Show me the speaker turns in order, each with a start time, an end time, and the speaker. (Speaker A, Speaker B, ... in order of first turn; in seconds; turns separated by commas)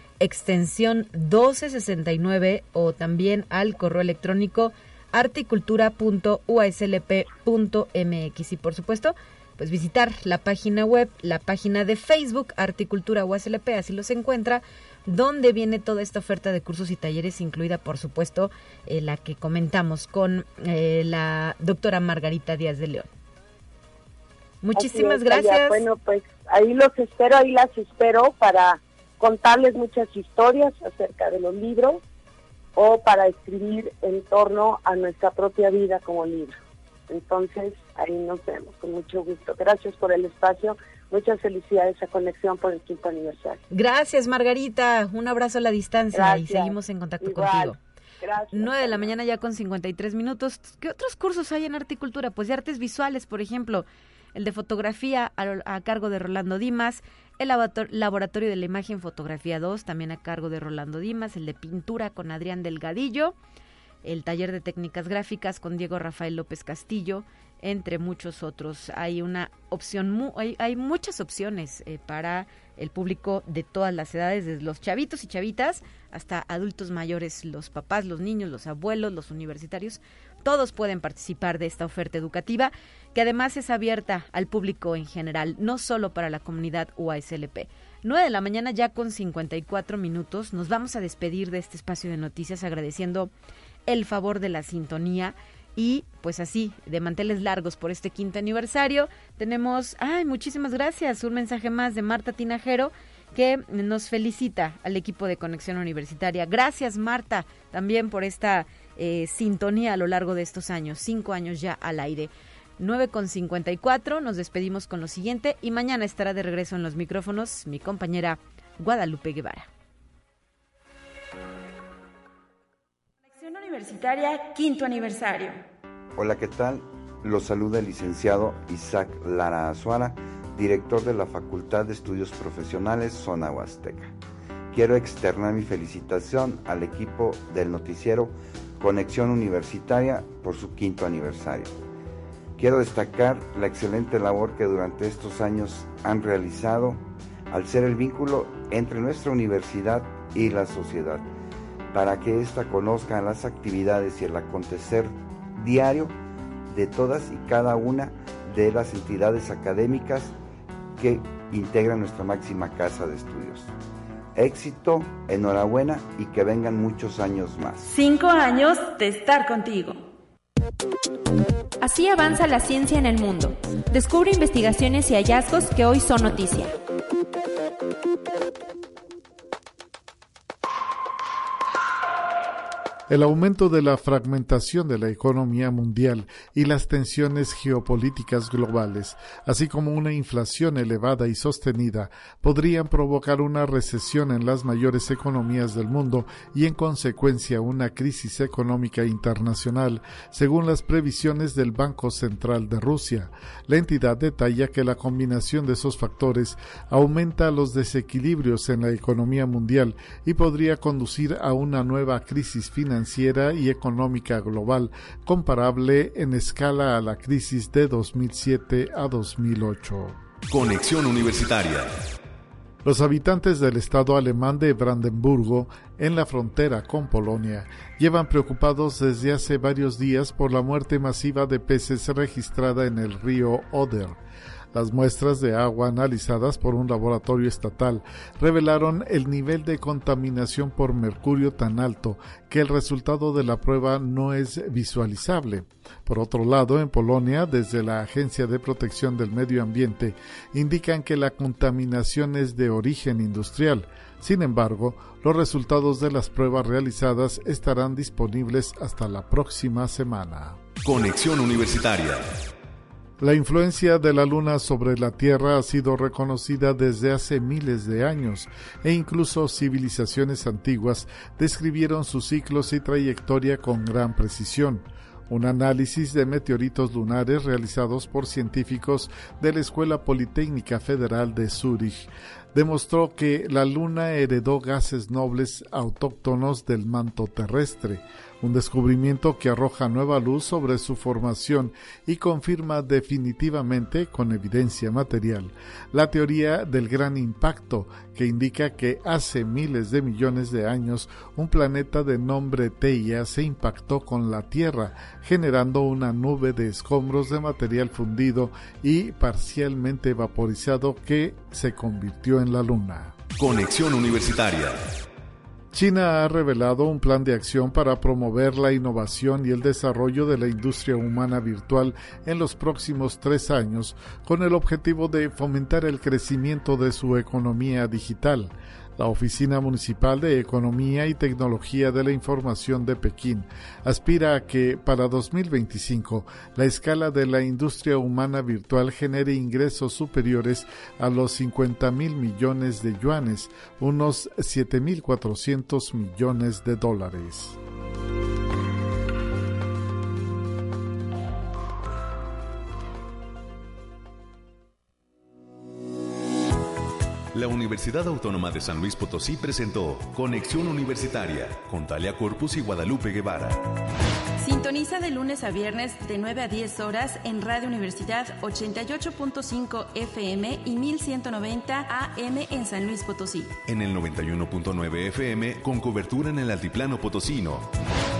Speaker A: 0.2-23.1, Speaker A: 24.6-25.9, Speaker B: 24.7-32.0, Speaker B: 32.8-36.5, Speaker B: 37.1-43.6, Speaker A: 43.7-47.8, Speaker B: 46.1-49.1, Speaker A: 48.5-63.4, Speaker A: 64.0-93.3, Speaker A: 93.9-119.7, Speaker C: 123.3-125.6, Speaker D: 126.2-134.1, Speaker D: 134.7-141.8, Speaker D: 142.6-151.2, Speaker D: 151.9-156.2, Speaker D: 156.7-160.3, Speaker D: 161.0-163.7, Speaker D: 164.4-167.8, Speaker C: 167.8-170.0, Speaker C: 171.8-176.7, Speaker E: 183.1-220.2, Speaker F: 220.5-221.9, Speaker E: 222.8-234.2, Speaker E: 234.7-260.6, Speaker F: 260.8-262.3, Speaker E: 263.2-313.2, Speaker F: 313.4-314.9, Speaker E: 315.7-347.6, Speaker F: 357.3-363.7, Speaker C: 364.4-373.6, Speaker F: 373.6-377.7